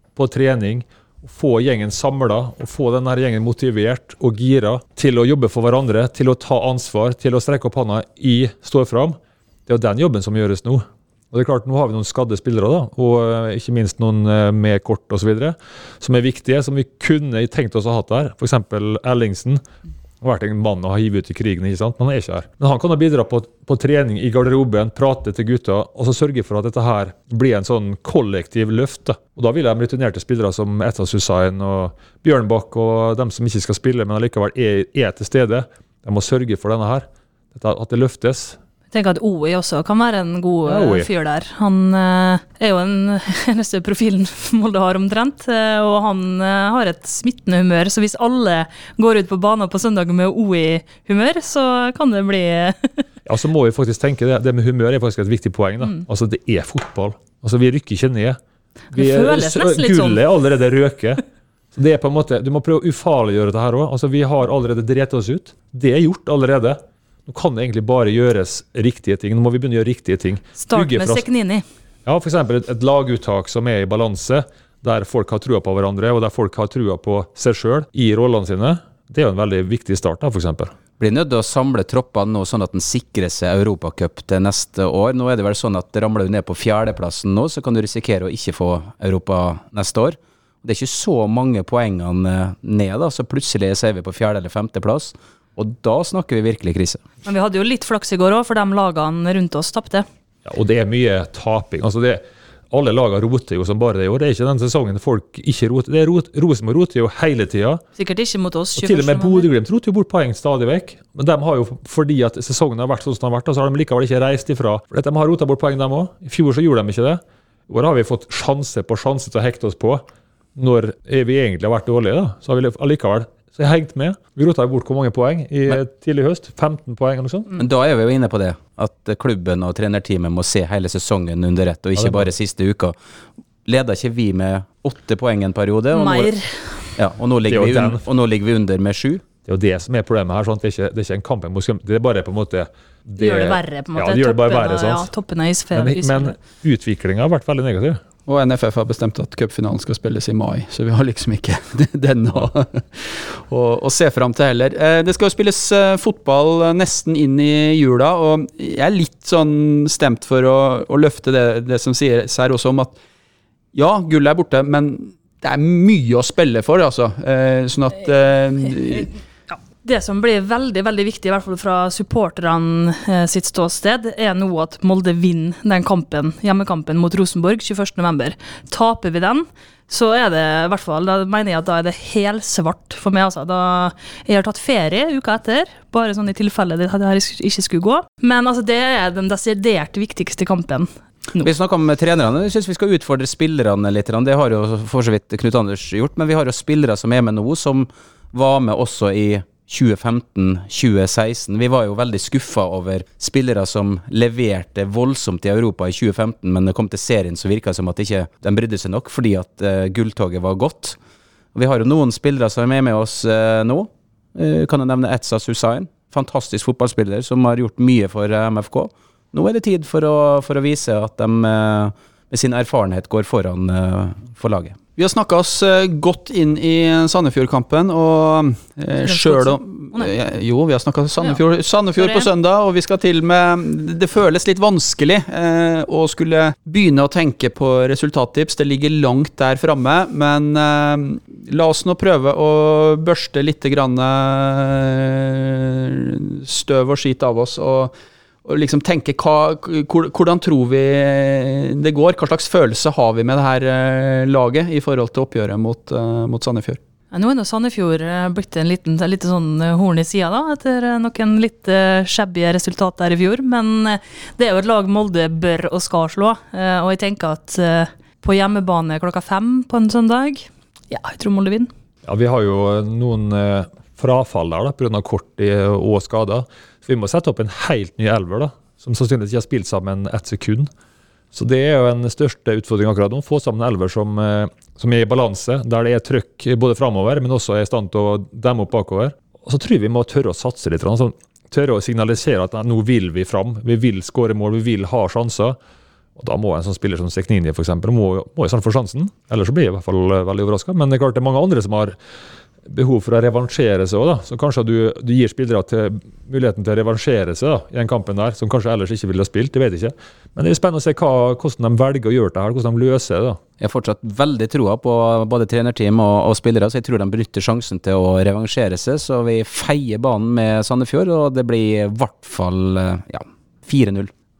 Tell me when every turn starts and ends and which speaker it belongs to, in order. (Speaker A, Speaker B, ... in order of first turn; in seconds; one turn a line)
Speaker A: 0.2-19.6
Speaker A: 20.2-38.6
Speaker B: 38.9-53.1
Speaker A: 40.7-41.1
Speaker A: 53.2-58.4
Speaker B: 58.9-60.2
Speaker A: 58.9-61.2
Speaker A: 61.8-71.2
Speaker B: 70.6-71.6
Speaker A: 72.1-80.8
Speaker C: 81.0-97.0
Speaker B: 97.2-100.1
Speaker A: 100.5-107.8
Speaker B: 108.0-109.5
Speaker A: 108.8-120.0
Speaker A: 120.6-127.5
Speaker C: 127.6-132.9
Speaker A: 132.0-132.3
Speaker C: 133.7-136.3
Speaker B: 135.9-136.8
Speaker C: 137.0-139.3
Speaker A: 137.5-138.0
Speaker A: 139.4-145.1
Speaker B: 143.2-146.4
Speaker A: 145.7-148.0
Speaker D: 148.3-163.0
Speaker D: 163.7-169.1
Speaker B: 169.5-191.5
Speaker C: 191.4-211.0
Speaker C: 211.6-224.8
Speaker D: 225.0-247.9
Speaker B: 229.0-230.1
Speaker B: 232.0-232.3
Speaker D: 248.4-256.8
Speaker B: 257.1-271.7
Speaker A: 272.1-280.7
Speaker A: 281.3-295.6
Speaker A: 296.2-301.9
Speaker A: 302.7-313.4
Speaker C: 313.6-324.1